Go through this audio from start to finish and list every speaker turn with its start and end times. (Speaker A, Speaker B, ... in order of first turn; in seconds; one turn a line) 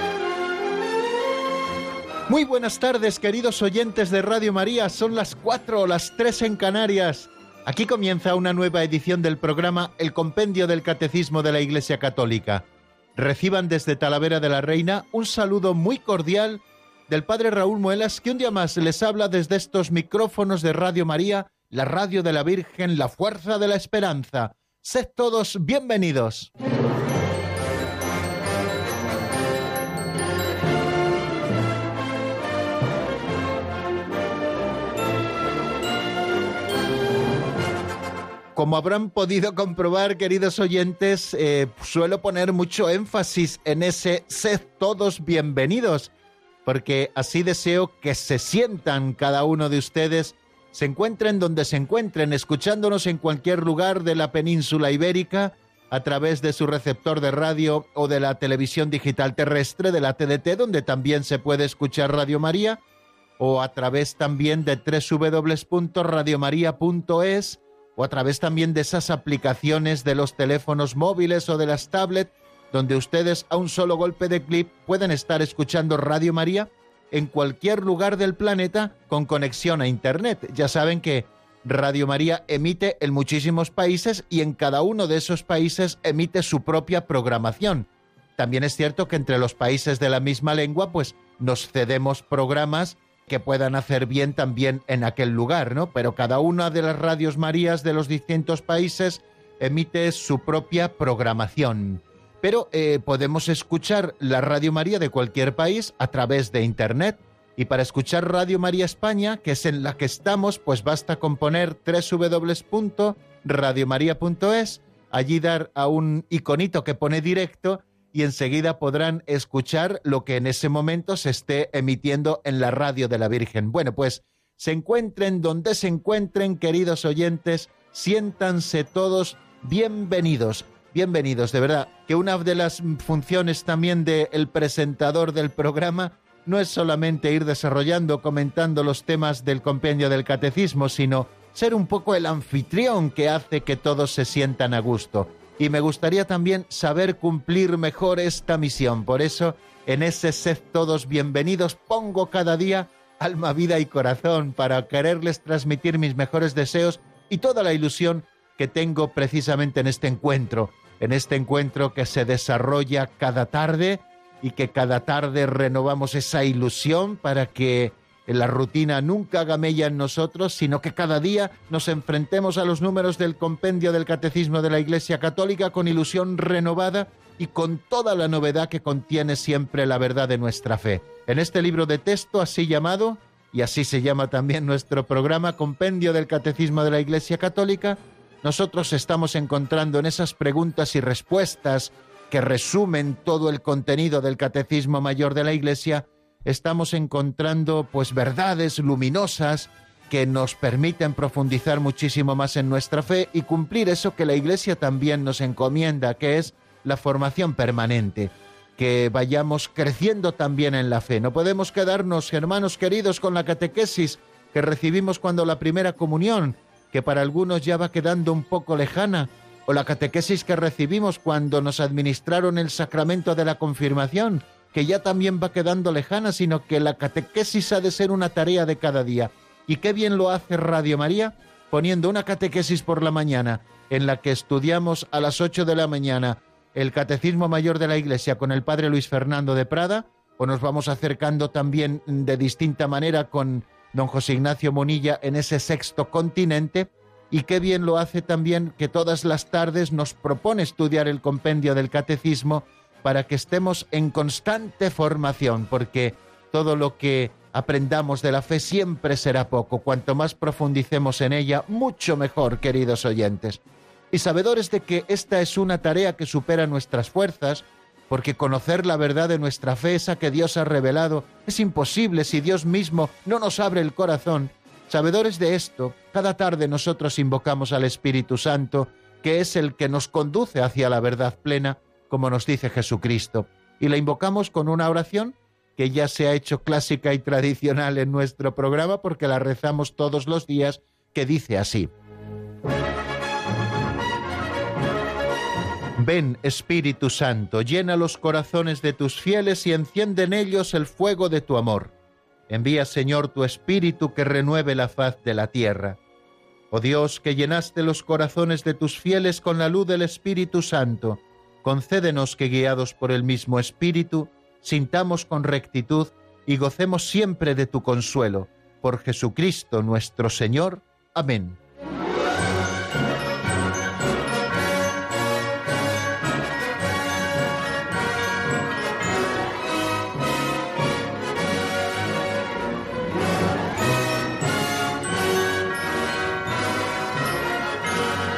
Speaker A: 2.3-12.6
Speaker A: 13.2-26.5
Speaker A: 38.5-46.1
Speaker A: 46.6-62.8
Speaker A: 63.4-263.6
Speaker A: 264.1-291.9
Speaker A: 296.0-301.9
Speaker A: 302.5-306.0
Speaker A: 306.7-321.6